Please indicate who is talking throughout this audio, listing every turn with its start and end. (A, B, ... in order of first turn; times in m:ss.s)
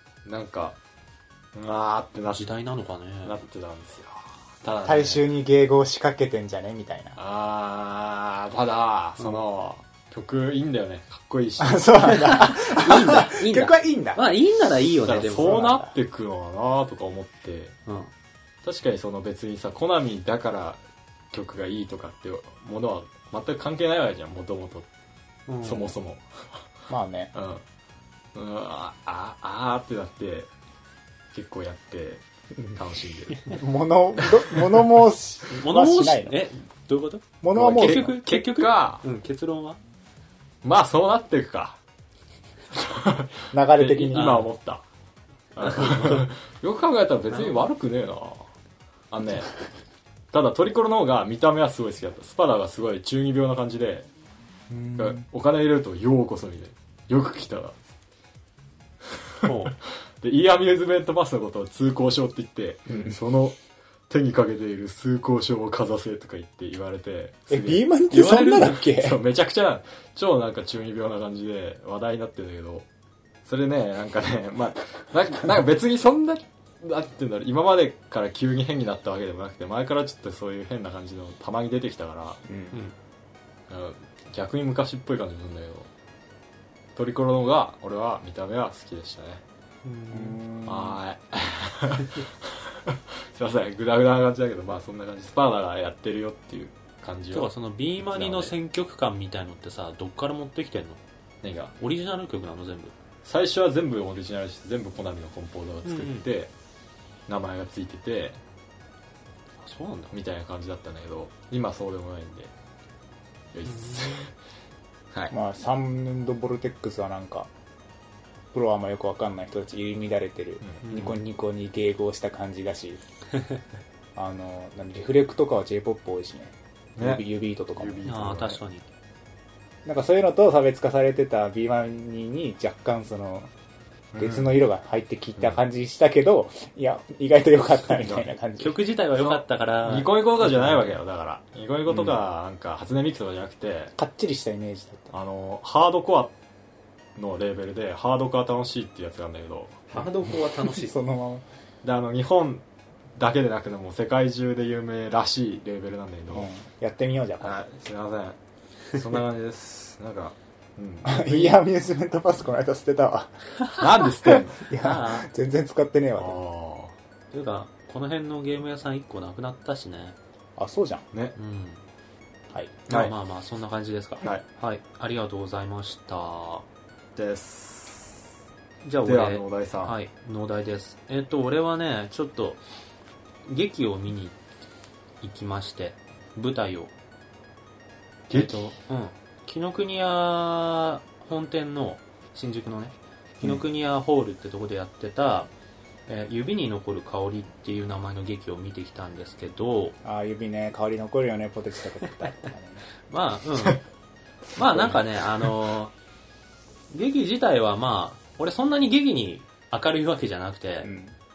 0:00.2-0:00.8 A
0:01.5-0:02.5 A
0:02.3-0:03.4 B
0:03.2-0:05.3 A
0:04.8-0:07.2 C
0:07.2-0:12.1 A
0:11.6-0:14.2 C
0:12.0-0:15.7 B
0:15.1-0:17.8 A
0:15.4-0:15.9 C
0:18.6-0:20.8 A
0:21.3-0:24.9 A
0:25.5-0:25.9 B
0:25.6-0:26.6 A
0:26.9-0:27.3 C
0:27.3-0:27.6 A
0:28.3-0:30.5 A
0:31.3-0:33.6 A
0:33.5-0:36.4 C
0:34.2-0:34.8 A
0:35.5-0:39.8 B
0:37.4-0:38.1 C
0:37.5-0:39.0 A
0:40.6-0:41.8 A
0:42.7-0:44.8 A
0:43.5-0:44.5 C
0:44.1-0:44.5 B
0:45.5-0:48.5 A
0:45.6-0:46.2 B
0:47.3-0:47.6 B
0:49.1-0:49.6 A
0:50.3-0:54.1 A
0:54.7-0:55.2 C
0:55.0-0:57.8 A
0:59.4-0:59.8 B
1:00.2-1:03.6 A
1:02.9-1:03.2 C
1:04.1-1:12.9 A
1:07.5-1:09.2 C
1:08.1-1:08.5 B
1:13.4-1:22.4 A
1:22.5-1:22.8 C
1:23.7-1:25.9 A
1:27.0-1:29.4 A
1:29.8-1:30.4 B
1:30.1-1:31.0 C
1:30.6-1:38.5 A
1:37.3-1:41.0 B
1:41.4-1:41.7 A
1:41.8-1:42.9 B
1:43.2-1:46.5 A
1:45.8-1:46.3 B
1:47.3-1:48.4 A
1:49.6-1:50.1 B
1:50.1-1:52.5 A
1:53.5-1:54.3 A
1:53.6-1:54.3 B
1:55.3-1:57.5 C
1:58.5-2:03.0 C
2:00.6-2:01.0 A
2:00.8-2:01.2 B
2:04.2-2:08.1 C
2:07.0-2:07.2 A
2:07.8-2:08.6 A
2:08.1-2:08.9 B
2:09.8-2:13.5 C
2:14.1-2:14.5 A
2:14.2-2:18.8 C
2:18.6-2:20.8 B
2:19.2-2:23.9 A
2:21.9-2:22.2 C
2:24.0-2:25.1 C
2:25.1-2:26.3 A
2:27.2-2:30.1 A
2:29.9-2:31.0 B
2:30.6-2:31.5 C
2:31.8-2:32.6 A
2:33.2-2:36.5 A
2:36.3-2:37.6 C
2:37.4-2:38.4 A
2:38.9-2:41.6 A
2:41.0-2:43.4 C
2:43.8-2:44.6 A
2:44.0-2:46.4 C
2:44.8-2:45.3 B
2:46.2-2:47.0 A
2:47.3-2:50.2 B
2:50.6-2:51.0 C
2:51.4-2:51.8 B
2:52.5-2:52.8 C
2:52.9-2:56.6 B
2:57.2-2:58.2 A
2:58.8-3:02.6 B
2:59.0-2:59.9 A
3:03.5-3:04.4 B
3:05.2-3:06.9 B
3:08.3-3:08.7 A
3:08.3-3:15.5 B
3:16.1-3:20.0 B
3:20.0-3:22.8 C
3:23.1-3:23.8 B
3:24.5-3:25.9 B
3:26.9-3:30.9 B
3:30.8-3:31.1 C